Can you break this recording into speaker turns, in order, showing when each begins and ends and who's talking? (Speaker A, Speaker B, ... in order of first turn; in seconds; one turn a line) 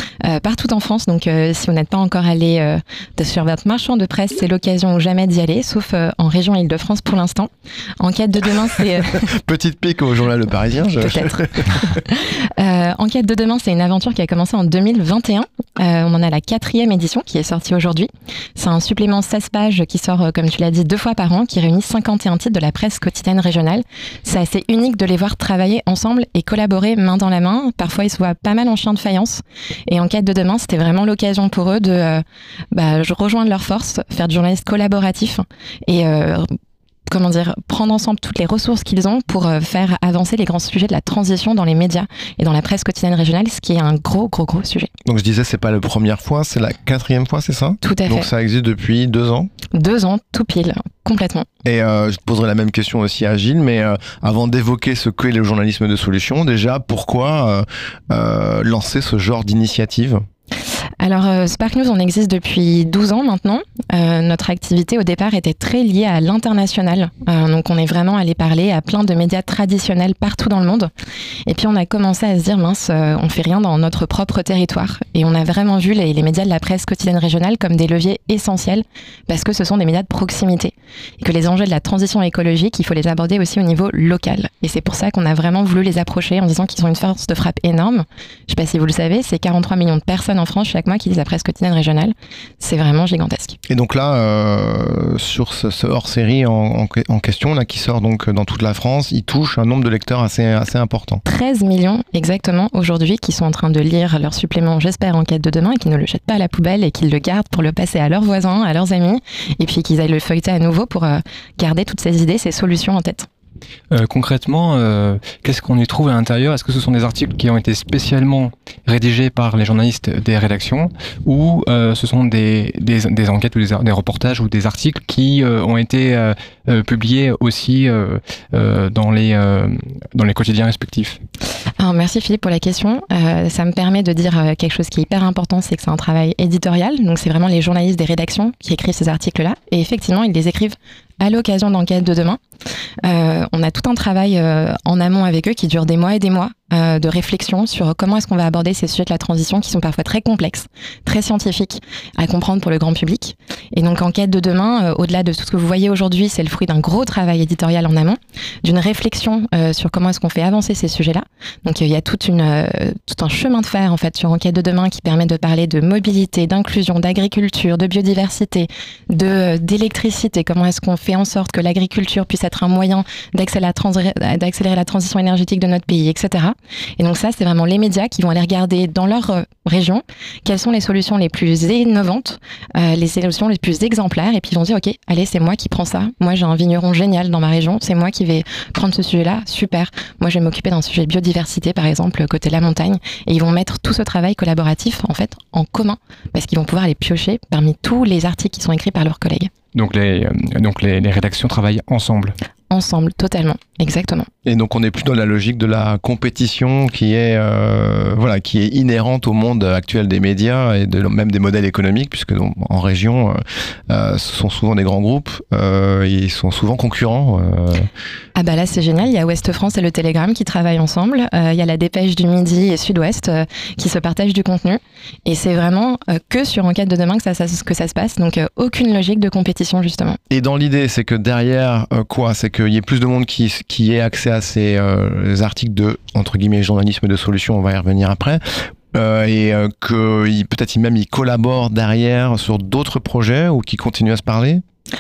Speaker A: 0.2-9.3
Speaker B: 9.2-11.9
Speaker A: 11.0-11.3
Speaker A: 12.1-36.5
Speaker A: 37.1-44.9
Speaker B: 45.0-49.5
Speaker A: 47.8-48.3
Speaker A: 49.7-51.5
Speaker B: 51.6-60.2
Speaker A: 61.0-70.9
Speaker A: 71.5-93.6
Speaker B: 93.7-101.2
Speaker A: 101.2-113.3
Speaker C: 113.9-131.2
Speaker A: 131.8-142.4
Speaker A: 143.0-199.5
Speaker C: 199.7-202.3
Speaker A: 202.7-204.3
Speaker B: 204.4-217.9
Speaker A: 218.4-230.2
Speaker B: 230.3-238.4
Speaker B: 238.9-244.6